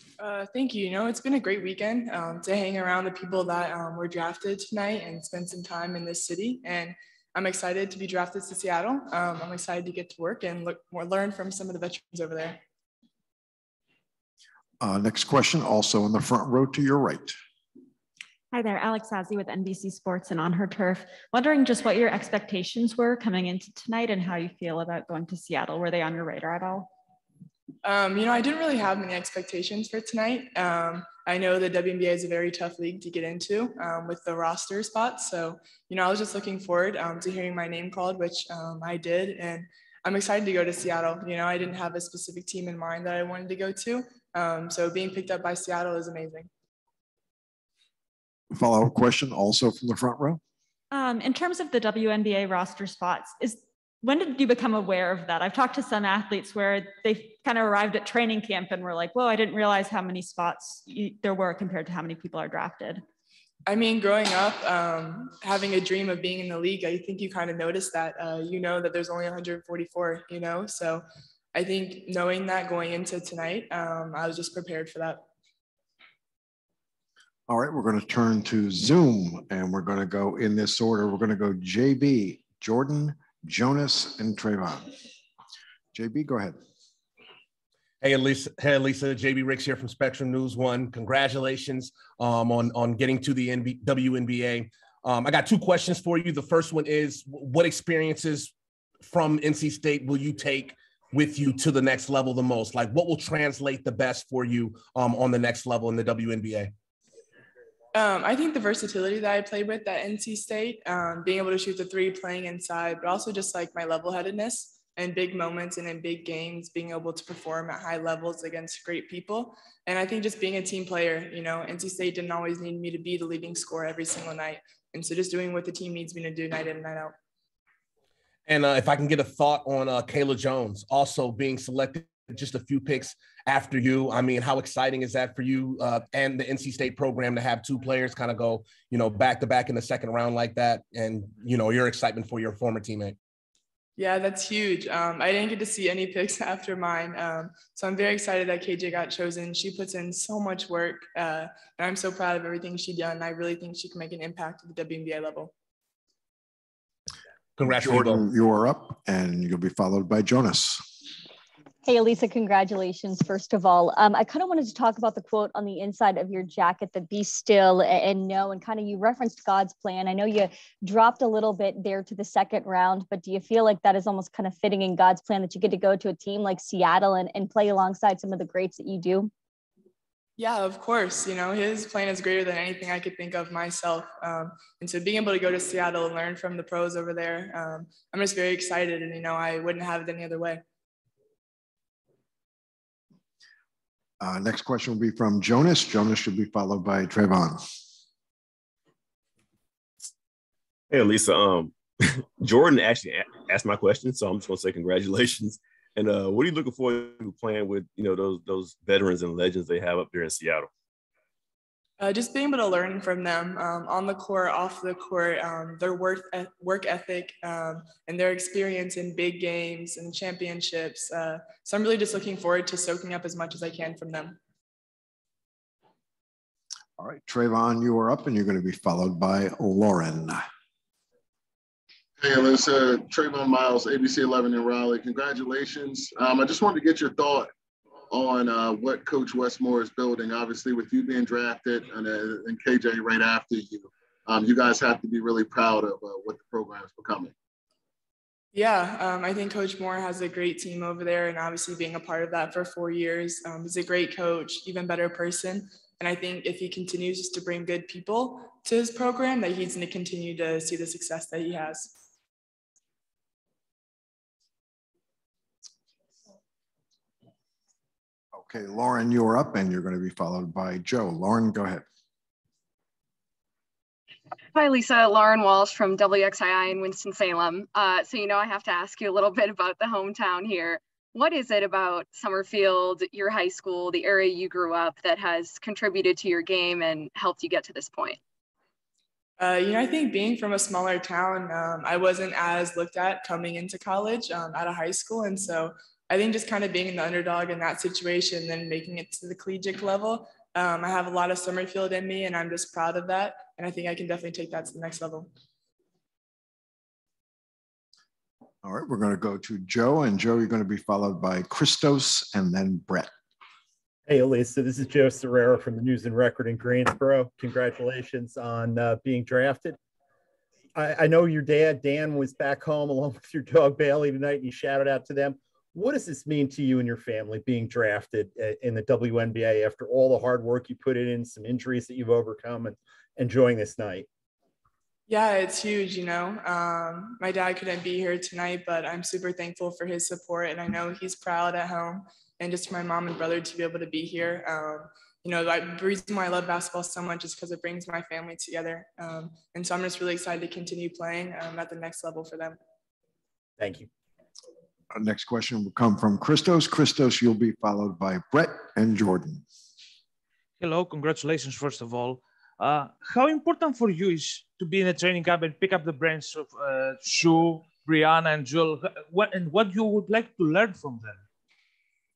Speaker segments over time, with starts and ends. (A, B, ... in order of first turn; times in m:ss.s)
0:00.3-0:12.5 A
0:14.8-0:17.3 B
0:18.5-0:26.9 C
0:27.9-0:46.4 A
0:48.5-0:50.4 B
0:50.9-1:03.0 C
1:03.7-1:11.0 A
1:11.6-1:15.2 A
1:17.5-1:24.9 B
1:25.9-1:26.6 B
1:28.0-1:38.5 D
1:39.1-1:46.7 D
1:48.0-2:07.1 A
2:08.5-2:23.2 D
2:24.0-2:35.5 A
2:37.6-2:38.3 D
2:37.6-2:40.8 B
2:41.8-2:59.3 E
3:00.4-3:10.6 A
3:14.2-3:17.6 B
3:20.9-3:30.7 F
3:32.0-3:44.4 A
3:47.0-3:50.4 B
3:52.2-3:57.5 G
3:58.1-4:07.3 G
4:08.6-4:21.9 A
4:28.4-4:31.8 B
4:34.5-4:48.2 H
4:49.4-5:05.3 A
5:08.6-5:13.1 B
5:14.1-5:19.8 I
5:20.8-5:34.1 I
5:35.1-5:52.5 A
5:53.6-5:53.9 I
5:54.9-5:59.4 B
6:00.6-6:11.2 J